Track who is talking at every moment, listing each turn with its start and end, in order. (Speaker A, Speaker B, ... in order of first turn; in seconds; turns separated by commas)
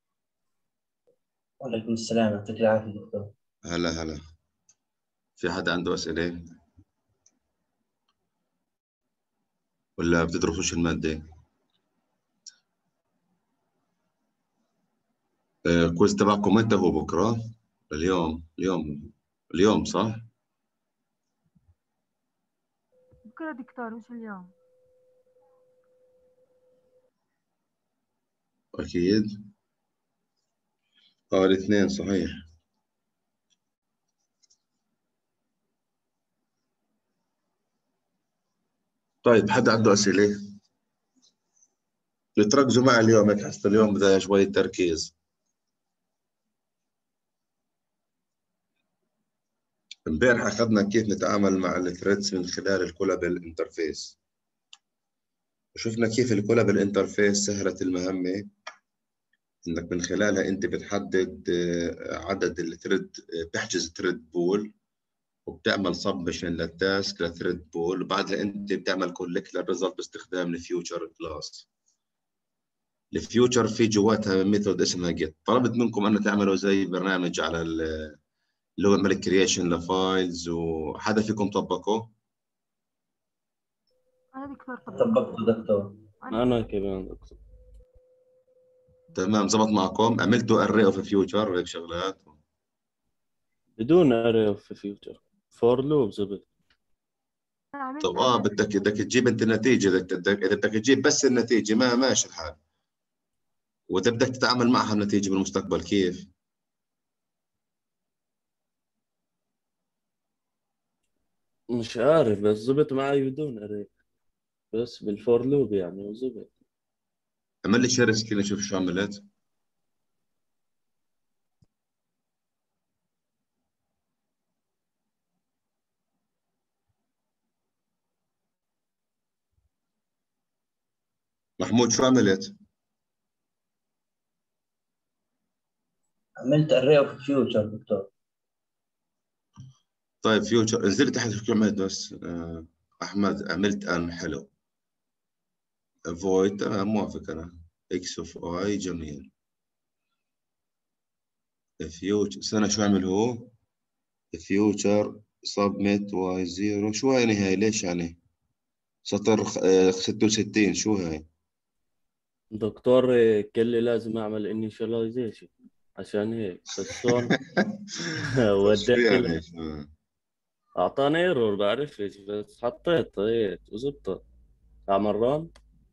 Speaker A: 1.6-3.3, Speaker B: 3.6-4.2, Speaker B: 5.4-6.4, Speaker B: 10.0-11.2, Speaker B: 15.7-20.3, Speaker C: 23.3-24.5, Speaker B: 28.8-29.3, Speaker B: 31.3-32.3, Speaker B: 39.2-40.4, Speaker B: 42.4-45.1, Speaker B: 50.1-54.2, Speaker B: 55.8-58.5, Speaker B: 59.6-64.7, Speaker B: 65.5-71.7, Speaker B: 73.1-78.2, Speaker B: 78.8-82.1, Speaker C: 84.3-85.5, Speaker A: 85.0-86.0, Speaker C: 86.2-86.6, Speaker D: 86.3-87.4, Speaker B: 89.2-92.4, Speaker D: 93.8-96.5, Speaker C: 97.8-98.9, Speaker B: 98.0-102.6, Speaker B: 103.9-106.3, Speaker D: 111.7-113.9, Speaker D: 114.7-116.5, Speaker B: 117.6-119.2, Speaker B: 131.6-132.5, Speaker A: 136.4-138.1, Speaker B: 140.2-144.5, Speaker B: 146.1-149.3, Speaker B: 151.8-153.5, Speaker B: 154.3-158.2, Speaker B: 159.1-161.3, Speaker D: 162.5-167.4, Speaker D: 168.4-169.4, Speaker B: 168.6-169.9, Speaker D: 170.8-174.2, Speaker D: 174.9-175.5